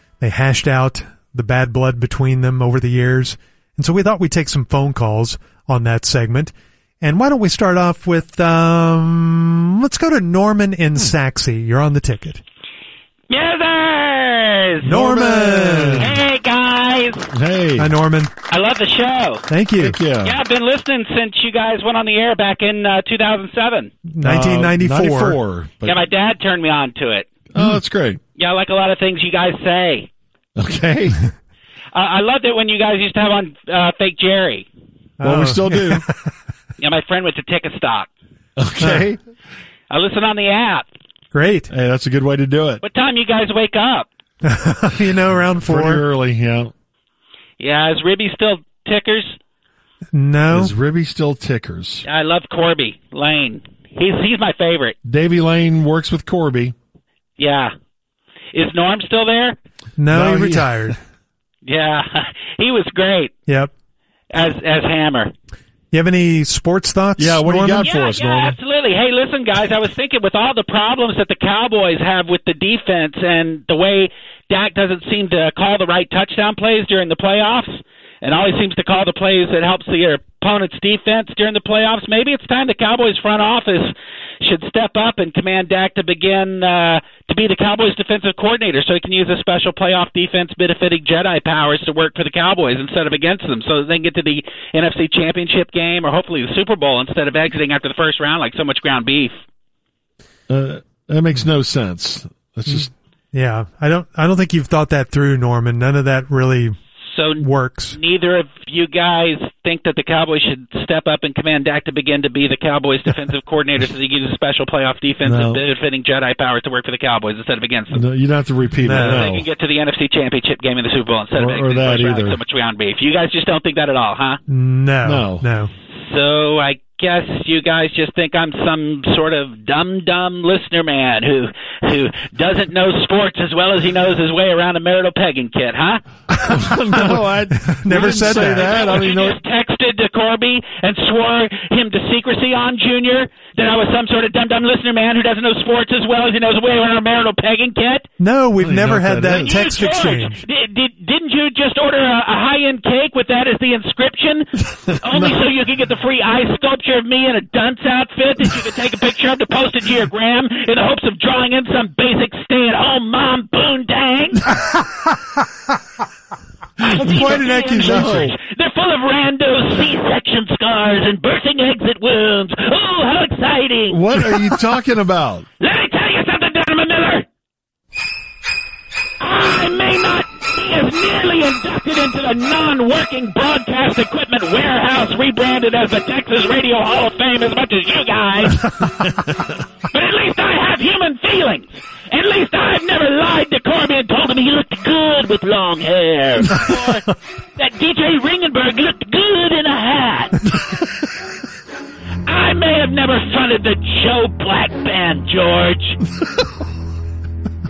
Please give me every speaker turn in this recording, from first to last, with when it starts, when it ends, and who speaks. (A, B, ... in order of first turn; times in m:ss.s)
0:00.2-0:12.4 A
0:13.3-0:14.9 B
0:14.8-0:16.2 C
0:14.9-0:16.1 A
0:16.0-0:17.3 B
0:17.3-0:17.9 C
0:17.8-0:18.3 A
0:18.5-0:19.5 B
0:19.5-0:20.0 A
0:19.8-0:20.4 C
0:20.2-0:23.9 B
0:24.1-0:25.4 A
0:24.2-0:26.0 C
0:25.8-0:27.3 B
0:27.5-0:28.2 C
0:28.4-0:30.1 B
0:30.6-0:31.2 C
0:31.9-0:34.7 B
0:35.2-0:36.3 A
0:35.2-0:36.0 C
0:36.8-0:38.1 B
0:38.6-0:39.2 C
0:38.8-0:39.0 A
0:39.9-0:40.8 B
0:41.3-0:41.7 A
0:41.7-0:42.8 C
0:42.8-0:44.1 B
0:44.4-0:46.0 A
0:45.7-0:46.7 C
0:47.6-0:49.4 B
0:50.1-0:50.7 A
0:50.5-0:52.0 C
0:52.0-0:55.0 B
0:55.0-0:56.7 C
0:57.4-0:57.7 B
0:58.5-0:59.6 B
1:00.0-1:01.0 A
1:00.1-1:01.0 C
1:01.6-1:03.3 B
1:04.3-1:05.3 B
1:05.9-1:07.9 A
1:07.2-1:08.6 C
1:07.8-1:39.4 B
1:40.5-1:42.9 C
1:42.7-1:46.8 A
1:47.0-1:58.0 B
1:47.4-1:48.0 A
1:55.2-1:55.6 C
1:57.9-1:59.5 C
1:58.8-1:59.3 A
1:58.9-2:04.4 B
2:01.3-2:02.4 C
2:04.5-2:05.7 A
2:05.0-2:05.4 C
2:05.9-2:16.0 B
2:16.4-2:19.4 C
2:17.7-2:18.8 A
2:17.9-2:28.1 B
2:28.2-2:30.4 A
2:28.6-2:29.6 C
2:29.3-2:44.4 B
2:46.8-2:54.5 B
2:46.9-2:48.3 A
2:47.8-2:48.3 C
2:53.9-2:55.4 C
2:55.6-2:57.2 B
2:59.2-3:08.8 B
3:09.9-3:20.5 B
3:22.2-3:26.0 B